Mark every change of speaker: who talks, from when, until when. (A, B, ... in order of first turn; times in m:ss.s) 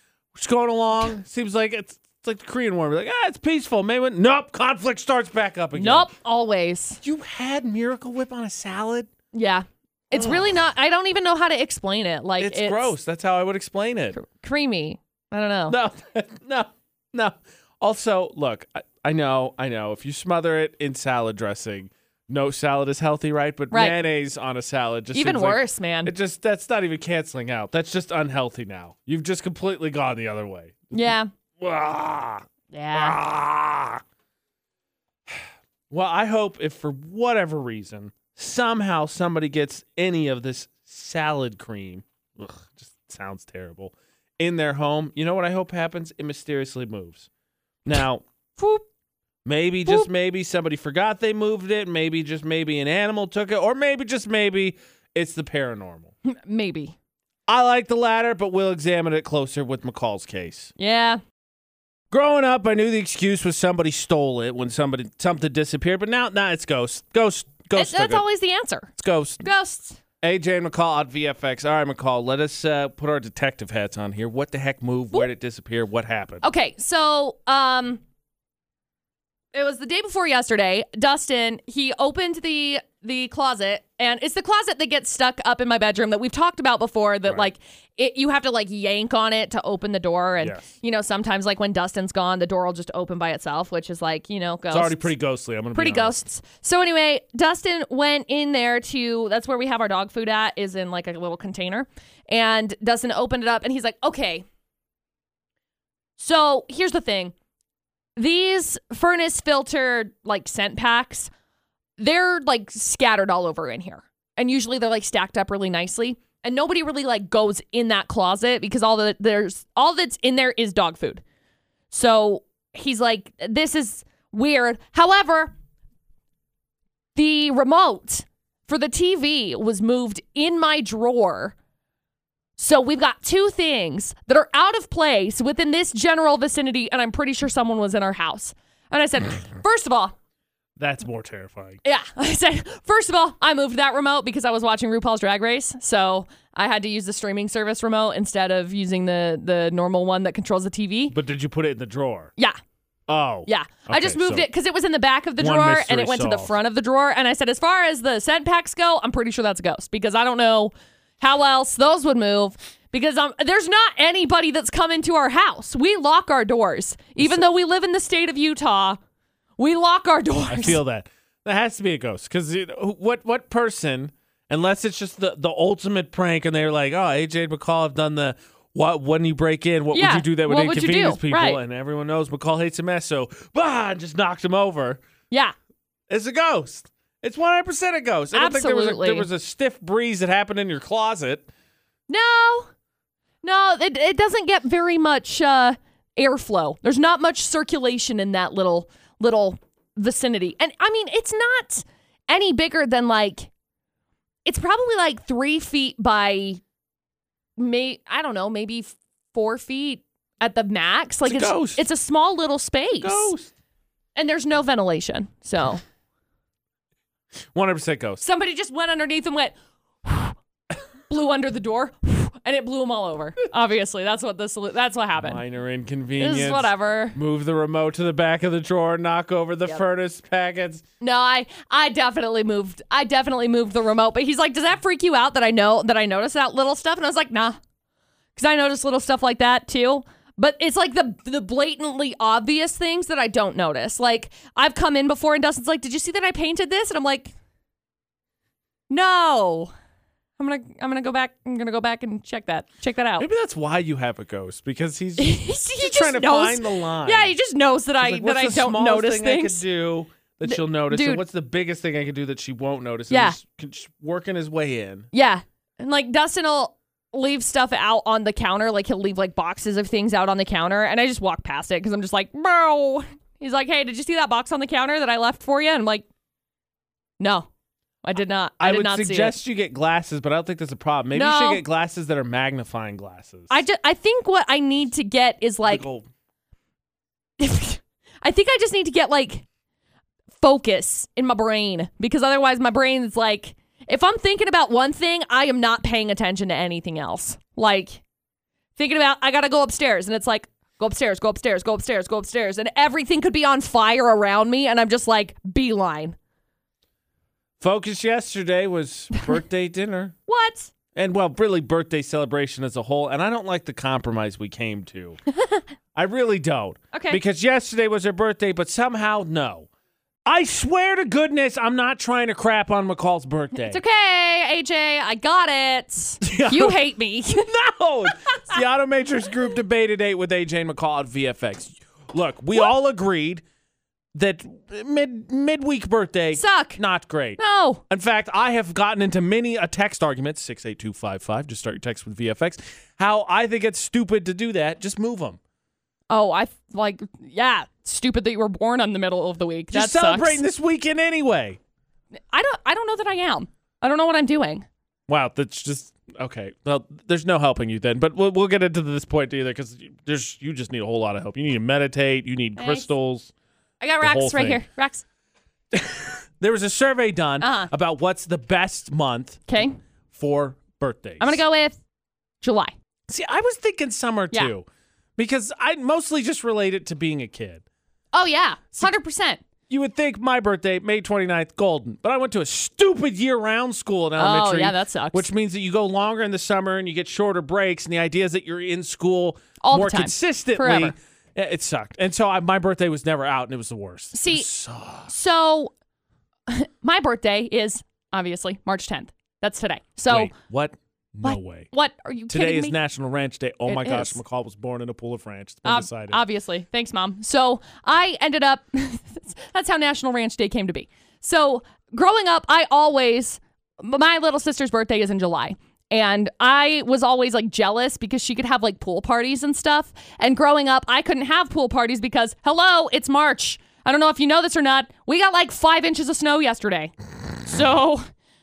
0:00.3-0:06.1 A
0:05.8-0:07.0 B
0:07.0-0:09.1 A
0:09.3-0:12.9 B
0:10.1-0:10.5 A
0:12.4-0:14.2 A
0:14.1-0:15.8 B
0:15.7-0:31.0 A
0:23.7-0:24.0 B
0:25.1-0:26.1 B
0:30.9-0:31.3 B
0:31.6-0:34.0 A
0:32.7-0:33.2 B
0:35.3-0:47.3 A
0:47.8-0:48.2 A
0:48.6-0:48.8 B
0:49.4-0:56.1 A
0:56.3-0:56.9 B
0:57.5-1:00.7 A
1:00.8-1:01.2 B
1:02.1-1:08.2 A
1:07.8-1:08.9 B
1:09.0-1:09.5 A
1:09.4-1:10.0 B
1:10.2-1:16.4 A
1:16.4-1:18.0 B
1:19.5-1:35.1 B
1:30.4-1:30.7 A
1:34.7-1:36.2 A
1:35.8-1:44.4 B
1:46.2-1:47.3 B
1:48.2-1:51.3 B
1:52.0-2:01.2 B
2:01.9-2:05.5 B
2:07.2-2:11.5 B
2:12.6-2:20.1 B
2:20.8-2:21.8 A
2:21.8-2:31.2 B
2:31.1-2:32.3 A
2:33.1-2:34.5 A
2:33.5-2:49.0 B
2:35.4-2:36.5 A
2:49.6-2:50.8 B
2:50.5-3:05.0 A
2:59.9-3:01.6 B
3:06.1-3:11.5 A
3:08.3-3:09.3 B
3:12.1-3:12.7 B
3:13.4-3:23.5 B
3:24.5-3:26.6 B
3:27.6-3:33.3 B
3:31.3-3:31.8 A
3:33.0-3:33.5 A
3:34.2-3:35.8 B
3:37.5-3:38.2 A
3:38.2-3:40.4 B
3:41.1-3:45.4 B
3:45.2-3:50.8 A
3:46.2-3:47.2 B
3:51.0-3:57.6 B
3:58.4-4:07.3 B
4:08.9-4:09.7 B
4:10.4-4:13.3 B
4:13.2-4:17.3 A
4:15.2-4:19.6 B
4:18.0-4:25.1 A
4:20.4-4:21.2 B
4:23.1-4:23.4 B
4:25.1-4:36.0 B
4:37.2-4:37.5 B
4:38.0-4:39.4 B
4:38.6-4:43.6 A
4:41.1-4:41.6 B
4:43.5-4:45.8 B
4:45.7-4:46.1 A
4:47.4-4:49.4 B
4:50.4-4:58.0 B
4:58.8-5:06.2 B
5:07.6-5:10.2 A
5:10.3-5:10.7 B
5:11.0-5:15.2 A
5:15.4-5:15.6 B
5:16.0-5:19.7 A
5:16.9-5:17.2 B
5:20.3-5:23.8 A
5:23.7-5:27.5 B
5:26.2-5:26.8 A
5:27.4-5:33.4 A
5:34.2-5:45.4 A
5:36.4-5:36.8 B
5:37.4-5:37.8 B
5:46.1-5:50.4 B
5:49.7-5:51.6 A
5:52.3-5:54.7 B
5:55.1-6:03.3 A
6:02.6-6:02.9 B
6:03.8-6:05.0 B
6:04.0-6:04.6 A
6:05.7-6:09.4 A
6:07.4-6:07.7 B
6:09.5-6:09.8 B
6:10.1-6:11.4 A
6:11.2-6:11.8 B
6:12.4-6:12.7 B
6:13.1-6:14.6 A
6:15.2-6:17.6 A
6:18.1-6:19.4 B
6:19.7-6:35.1 A
6:24.2-6:25.3 B
6:29.6-6:30.9 B
6:34.1-6:34.5 B
6:35.1-6:35.7 B
6:36.5-6:40.3 B
6:40.1-6:41.7 A
6:41.2-6:42.8 B
6:42.3-6:46.2 A
6:43.7-6:44.2 B
6:45.6-7:08.1 B